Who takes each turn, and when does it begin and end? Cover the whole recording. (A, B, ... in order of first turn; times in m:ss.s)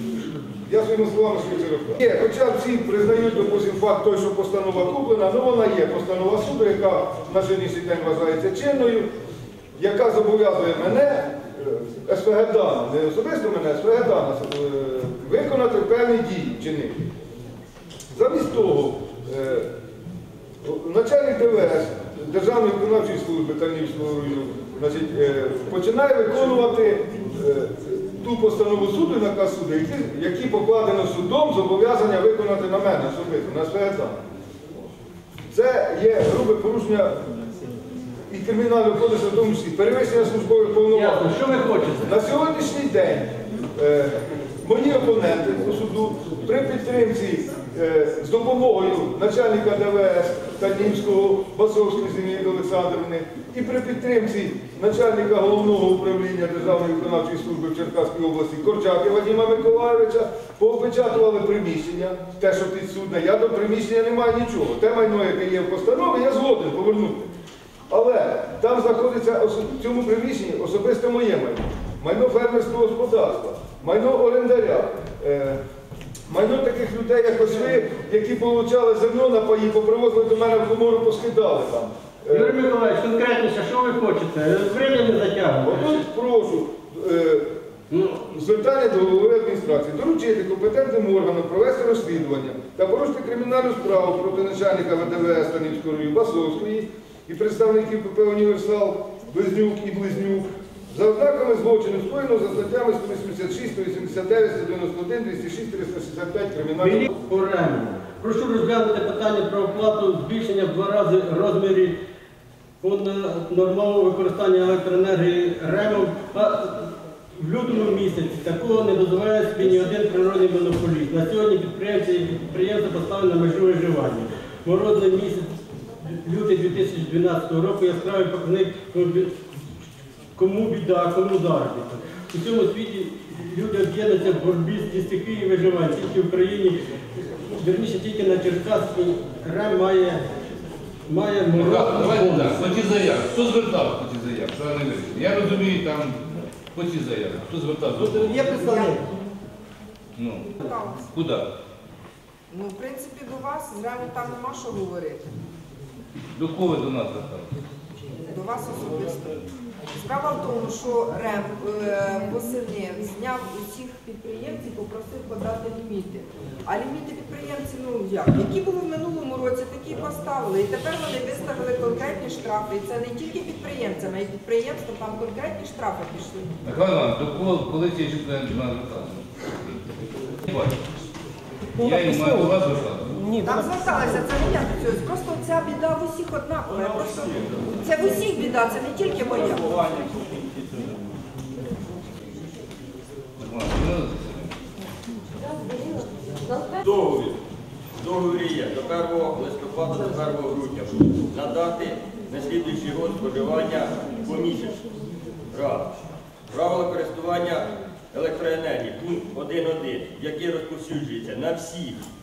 0:00.7-0:09.1 A
0:09.8-0:17.1 A
0:18.1-0:19.7 A
0:20.6-0:34.2 A
0:35.5-0:37.1 A
0:38.3-0:41.3 A
0:40.9-0:42.1 B
0:42.0-1:07.3 A
1:07.9-1:15.6 A
1:16.3-1:22.6 A
1:22.3-1:26.0 B
1:25.6-1:27.5 A
1:28.1-1:47.1 A
1:46.8-1:52.0 B
1:52.8-2:05.5 B
2:06.0-2:09.3 B
2:10.4-2:16.8 B
2:17.5-2:20.2 B
2:21.1-2:22.6 B
2:21.5-2:26.2 C
2:26.7-2:28.5 C
2:28.0-2:29.0 B
2:28.5-2:29.0 D
2:30.2-2:30.5 C
2:30.6-2:31.1 D
2:31.1-2:31.5 C
2:32.5-2:35.3 D
2:36.4-2:37.5 C
2:38.2-2:39.3 D
2:39.9-2:56.5 D
2:56.6-2:59.2 C
3:00.5-3:00.7 C
3:01.8-3:03.3 C
3:03.4-3:09.9 D
3:13.4-3:14.5 C
3:16.8-3:17.4 E
3:18.0-3:24.8 E
3:25.5-3:25.9 E
3:26.5-3:32.0 E